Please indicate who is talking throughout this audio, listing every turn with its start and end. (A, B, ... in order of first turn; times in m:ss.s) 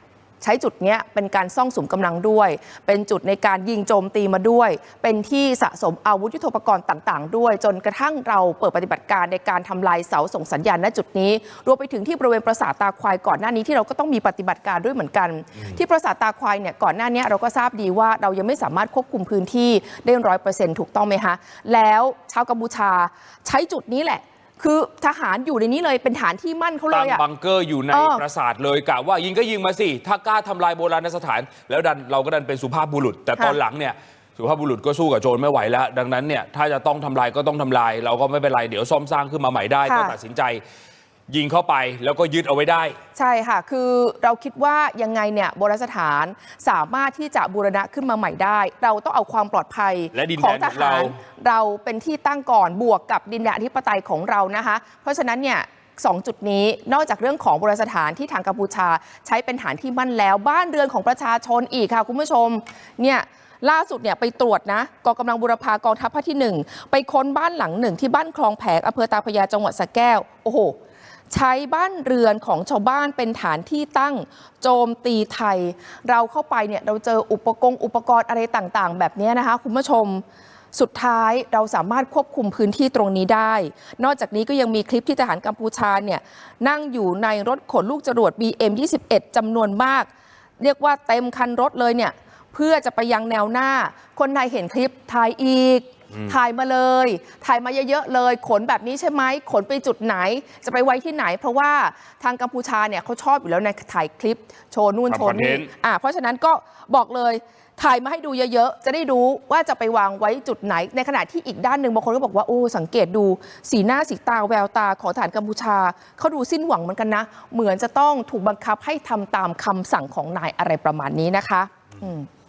0:00.4-0:27.2 A
0:26.9-0:40.6 B
0:27.9-0:28.2 A
0:39.8-0:40.2 A
0:41.3-0:43.0 B
0:43.1-1:10.7 A
0:50.1-0:51.1 B
1:11.3-1:20.2 A
1:20.7-1:30.1 A
1:30.6-2:02.3 A
1:36.1-1:36.4 B
1:45.1-1:45.7 B